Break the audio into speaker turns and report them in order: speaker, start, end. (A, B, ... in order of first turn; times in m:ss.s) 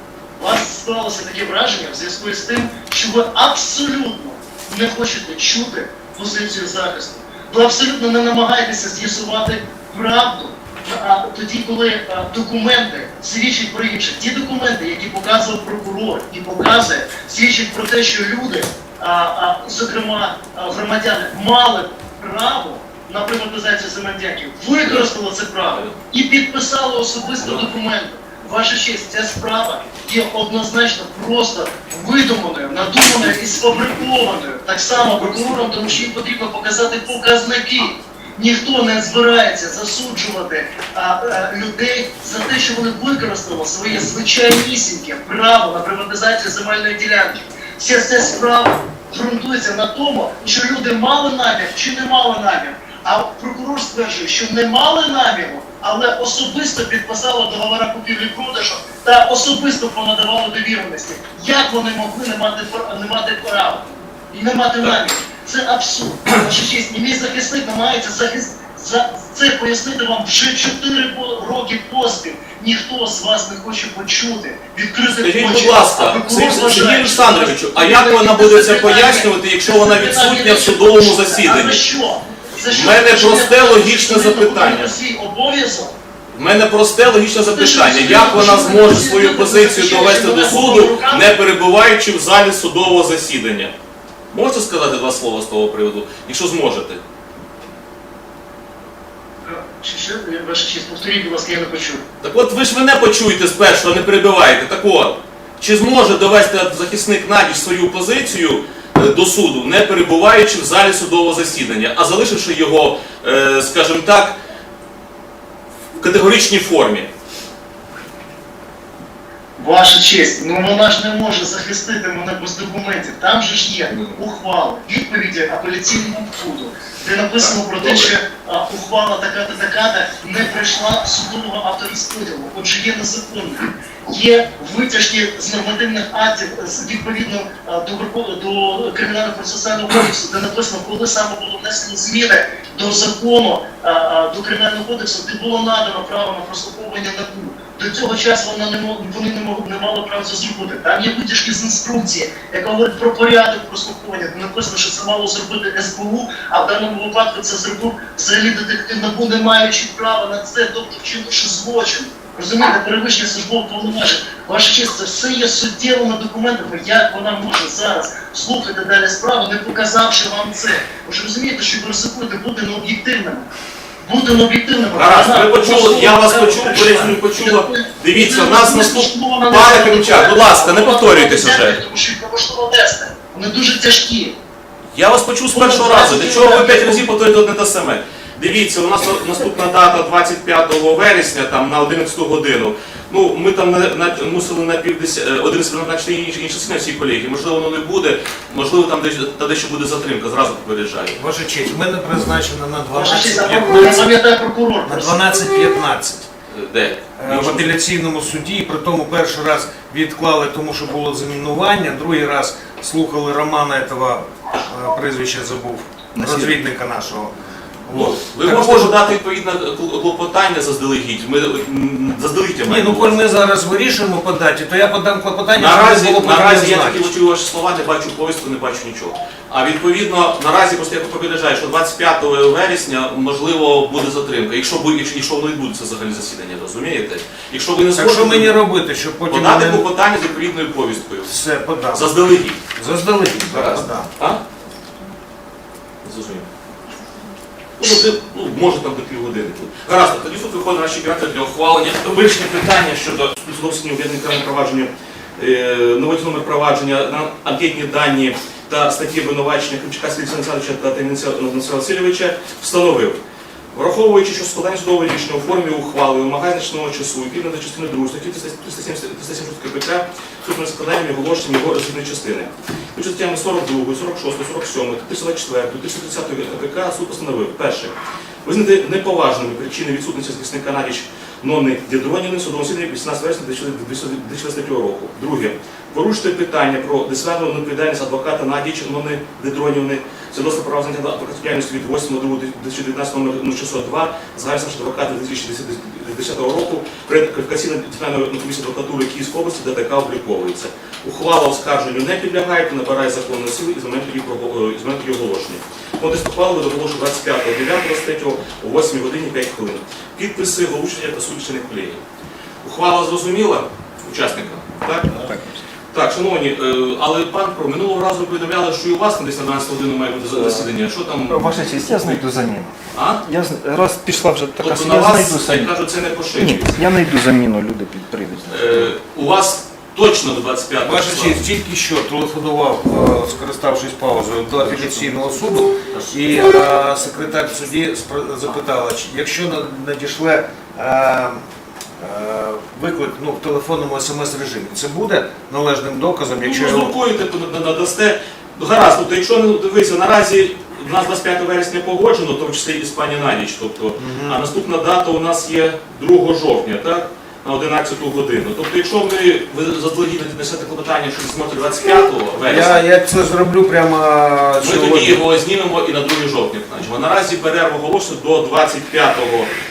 0:00.4-1:25.9 A
0:24.8-0:25.1 B
0:25.7-0:26.0 B
0:27.4-0:27.7 B
0:34.9-0:36.0 B
1:15.1-1:21.8 B
1:22.7-1:25.0 B
1:26.3-1:33.7 B
1:27.4-1:31.3 A
1:34.3-1:37.0 B
1:39.4-1:42.0 A
1:42.2-1:54.4 B
1:56.0-1:57.1 B
1:59.6-2:53.5 A
2:03.9-2:04.2 B
2:07.4-2:08.1 B
2:54.0-3:04.4 A
2:54.9-3:01.8 B
3:04.9-3:21.2 B
3:05.5-3:07.1 A
3:21.1-3:24.1 C
3:22.9-3:25.2 A
3:24.8-3:26.3 C
3:26.5-3:27.7 B
3:27.2-3:39.0 C
3:36.2-3:36.5 D
3:37.9-3:43.2 B
3:42.6-3:47.1 C
3:45.5-3:58.6 B
3:57.9-3:59.9 C
3:59.3-4:01.3 B
4:01.2-4:02.2 C
4:01.9-4:02.7 B
4:02.7-4:04.1 C
4:03.4-4:04.4 B
4:06.0-4:06.5 B
4:07.8-4:23.2 B
4:23.7-5:12.0 B
5:12.6-5:15.1 B
5:15.1-5:15.6 D
5:15.9-5:22.2 B
5:20.2-5:20.7 D
5:21.3-5:25.8 D
5:22.9-5:23.2 B
5:24.6-5:26.8 B
5:26.3-5:28.9 D
5:28.5-5:31.4 B
5:30.8-5:41.4 C
5:34.6-5:35.1 B
5:35.9-5:36.4 B
5:42.0-5:46.9 C
5:46.4-6:02.8 B
5:54.0-5:54.4 C
6:02.4-6:05.2 C
6:04.6-6:09.5 B